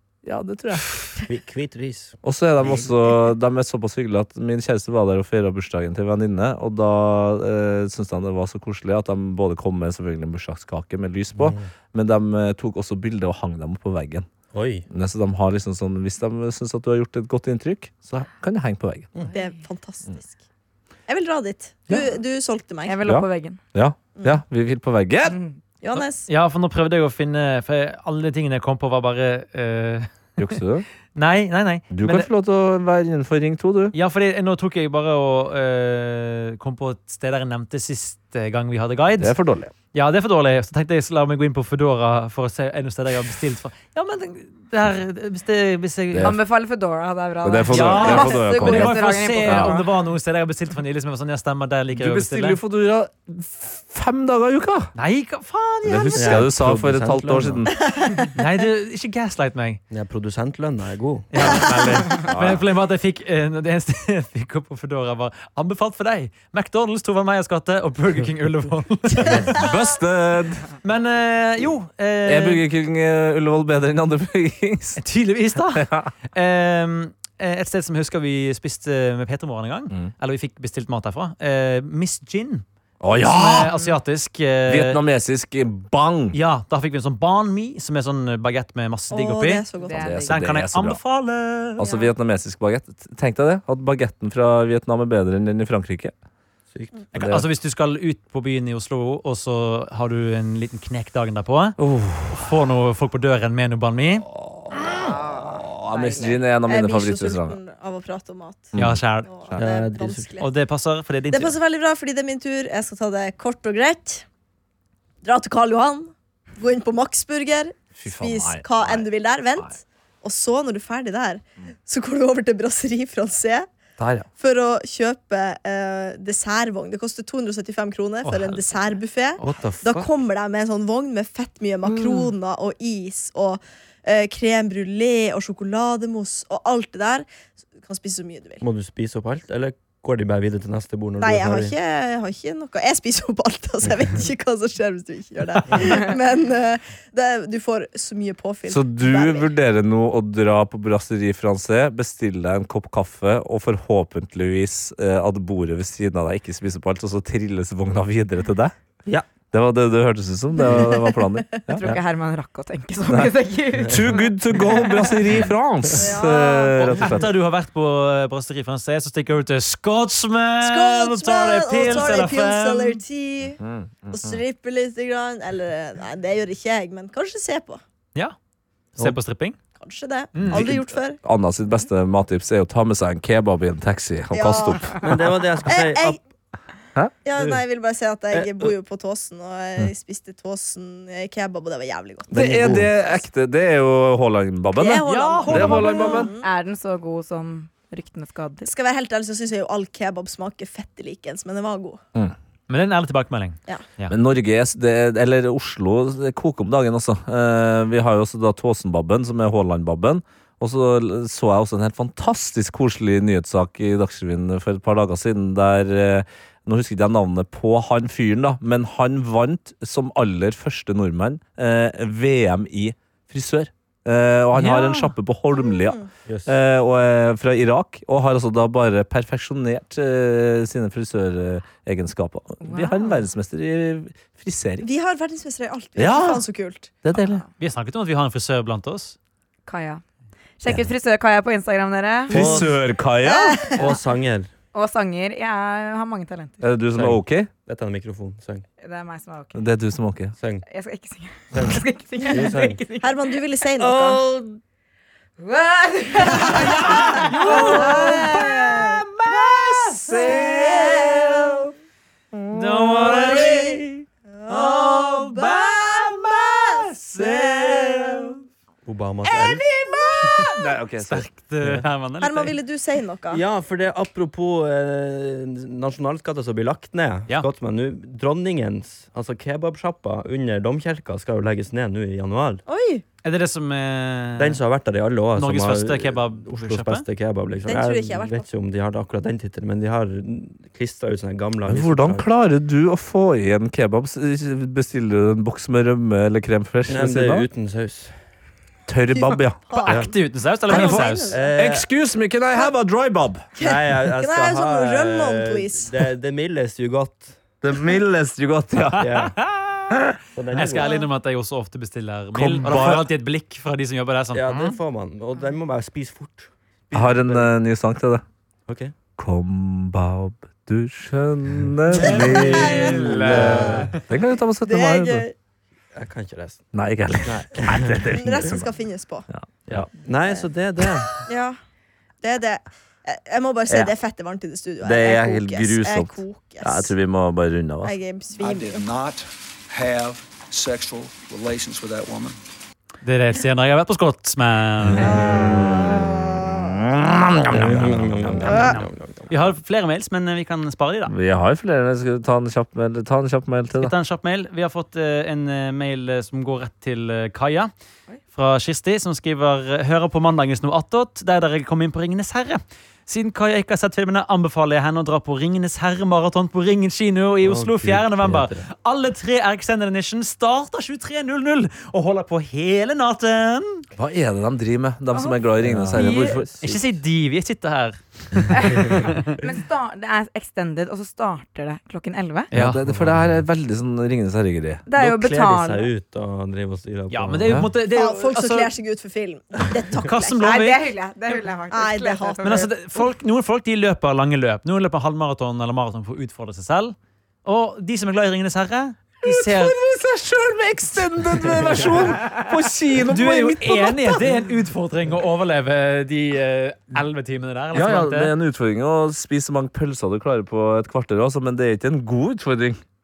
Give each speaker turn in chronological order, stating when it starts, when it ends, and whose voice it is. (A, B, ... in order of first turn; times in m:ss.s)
0:00.2-0:01.0 A
0:01.2-0:02.9 B
0:02.2-0:14.3 A
0:11.4-0:11.7 B
0:14.5-0:14.9 B
0:14.9-0:19.1 A
0:19.3-0:20.4 C
0:21.1-0:23.0 C
0:22.8-0:23.6 D
0:23.0-0:25.4 A
0:25.3-0:25.6 D
0:25.8-0:26.3 C
0:26.0-0:30.6 E
0:30.4-0:30.9 A
0:31.1-0:32.3 E
0:31.9-0:34.0 A
0:33.9-0:39.3 E
0:39.2-0:39.7 A
0:39.9-0:46.4 E
0:46.1-0:46.4 A
0:46.2-0:49.9 D
0:47.4-0:49.8 A
0:47.7-0:52.6 E
0:52.0-0:54.9 A
0:55.0-0:56.4 E
0:55.8-0:57.8 A
0:56.2-0:57.7 B
0:58.3-0:59.8 E
0:59.9-1:01.6 B
1:01.3-1:09.6 E
1:02.2-1:02.6 A
1:09.2-1:09.5 B
1:09.5-1:10.7 A
1:10.8-1:12.6 E
1:12.3-1:15.0 A
1:15.0-1:22.6 E
1:15.8-1:16.1 A
1:23.0-1:23.8 A
1:23.2-1:25.0 E
1:24.7-1:26.4 A
1:26.3-1:29.7 E
1:29.1-1:30.2 C
1:29.8-1:30.4 D
1:30.0-1:31.0 A
1:30.3-1:31.8 E
1:31.8-1:36.1 A
1:36.7-1:37.0 B
1:37.1-1:41.8 E
1:37.2-1:37.5 A
1:41.8-1:42.5 A
1:42.3-1:44.3 E
1:44.4-1:47.6 A
1:44.9-1:46.4 D
1:45.0-1:45.6 C
1:46.2-1:50.5 C
1:48.7-1:49.6 A
1:48.8-1:49.3 E
1:49.6-1:50.3 B
1:50.4-1:51.6 E
1:51.3-1:54.2 C
1:55.2-2:03.7 C
1:58.0-1:59.7 A
2:04.0-2:04.3 A
2:04.4-2:17.3 C
2:08.2-2:08.7 E
2:09.4-2:10.1 B
2:17.8-2:18.6 C
2:18.6-2:21.7 B
2:21.2-2:29.5 C
2:28.7-2:38.7 A
2:39.5-2:42.0 A
2:40.6-2:41.4 C
2:41.7-2:44.3 D
2:43.1-2:47.3 A
2:43.8-2:44.2 B
2:46.0-2:47.0 C
2:46.8-2:53.0 E
2:50.6-2:57.8 C
2:53.6-2:54.4 A
2:59.0-2:59.6 E
2:59.8-3:01.2 C
3:00.3-3:00.7 E
3:00.4-3:05.1 A
3:04.3-3:06.2 C
3:05.0-3:06.2 B
3:07.2-3:12.9 C
3:08.3-3:08.7 B
3:12.3-3:12.9 B
3:12.3-3:16.3 A
3:14.8-3:16.5 C
3:15.1-3:16.0 E
3:16.1-3:18.7 D
3:18.6-3:22.0 C
3:22.7-3:24.2 E
3:24.1-3:54.9 A
3:44.5-3:45.1 E
3:45.5-3:46.1 C
3:46.3-3:46.5 B
3:52.6-3:53.2 D
3:54.8-3:56.9 C
3:56.0-3:56.4 A
3:57.0-3:57.4 A
3:57.6-3:59.2 E
3:59.7-4:00.0 D
4:00.6-4:02.6 D
4:02.3-4:03.8 A
4:02.3-4:02.7 B
4:03.2-4:03.8 C
4:03.8-4:04.5 B
4:04.7-4:06.6 D
4:06.6-4:07.5 A
4:06.9-4:08.6 B
4:08.8-4:09.6 D
4:09.6-4:10.3 A
4:10.4-4:10.6 B
4:10.7-4:13.2 D
4:11.5-4:12.8 B
4:13.0-4:14.3 C
4:13.8-4:14.6 B
4:15.4-4:17.2 D
4:16.3-4:21.7 A
4:16.4-4:19.0 C
4:17.4-4:18.2 E
4:19.2-4:20.0 E
4:20.1-4:21.4 C
4:22.3-4:23.9 A
4:22.5-4:23.8 E
4:23.2-4:23.7 C
4:24.4-4:27.8 C
4:24.5-4:25.9 E
4:24.6-4:28.4 A
4:28.8-4:29.6 B
4:29.8-4:31.3 A
4:30.2-4:30.5 E
4:31.0-4:32.6 E
4:32.2-4:33.4 C
4:33.3-4:42.6 B
4:42.7-4:43.0 C
4:43.2-4:44.6 E
4:44.4-4:52.2 B
4:45.4-4:47.1 E
4:47.6-4:48.5 C
4:51.7-4:57.5 A
4:56.9-4:58.2 B
4:58.9-4:59.7 A
4:59.1-5:00.1 C
4:59.8-5:01.3 E
5:00.7-5:01.6 C
5:00.7-5:03.5 A
5:01.3-5:01.8 B
5:03.6-5:05.9 C
5:03.6-5:07.4 B
5:07.6-5:09.1 A
5:09.0-5:09.4 B
5:09.0-5:10.0 E
5:10.4-5:10.9 B
5:10.5-5:14.5 E
5:10.8-5:11.1 C
5:12.4-5:13.1 A
5:14.3-5:17.5 B
5:16.9-5:18.2 A
5:18.7-5:18.9 B
5:19.2-5:25.2 A
5:21.9-5:23.9 B
5:22.0-5:24.0 E
5:22.3-5:23.9 C
5:24.6-5:25.4 C
5:26.0-5:26.6 B
5:26.7-5:28.7 A
5:27.2-5:28.1 B
5:28.1-5:29.3 C
5:29.3-5:29.9 A
5:29.7-5:31.1 B
5:31.2-5:31.6 C
5:32.2-5:37.0 C
5:34.8-5:38.0 A
5:37.8-5:38.9 C
5:38.4-5:42.4 F
5:43.0-5:45.2 E
5:44.9-5:46.0 B
5:45.0-5:46.8 C
5:45.1-5:48.7 A
5:47.5-5:49.4 B
5:48.5-5:51.1 E
5:48.5-5:48.8 C
5:51.1-5:53.9 A
5:53.8-5:57.7 E
5:58.3-6:13.9 E
6:07.4-6:08.7 B
6:14.0-6:16.5 A
6:15.1-6:15.4 D
6:15.6-6:16.8 B
6:16.0-6:16.4 D
6:16.6-6:19.4 E
6:18.6-6:18.8 D
6:19.4-6:22.5 D
6:22.5-6:22.8 E
6:22.5-6:24.9 A
6:22.9-6:23.3 B
6:24.9-6:25.9 D
6:25.0-6:27.6 B
6:27.1-6:28.7 E
6:27.8-6:30.4 C
6:30.0-6:30.8 E
6:30.4-6:32.7 D
6:31.7-6:32.7 C
6:32.4-6:39.8 E
6:39.2-6:44.3 A
6:43.1-6:48.3 E
6:47.7-6:52.8 A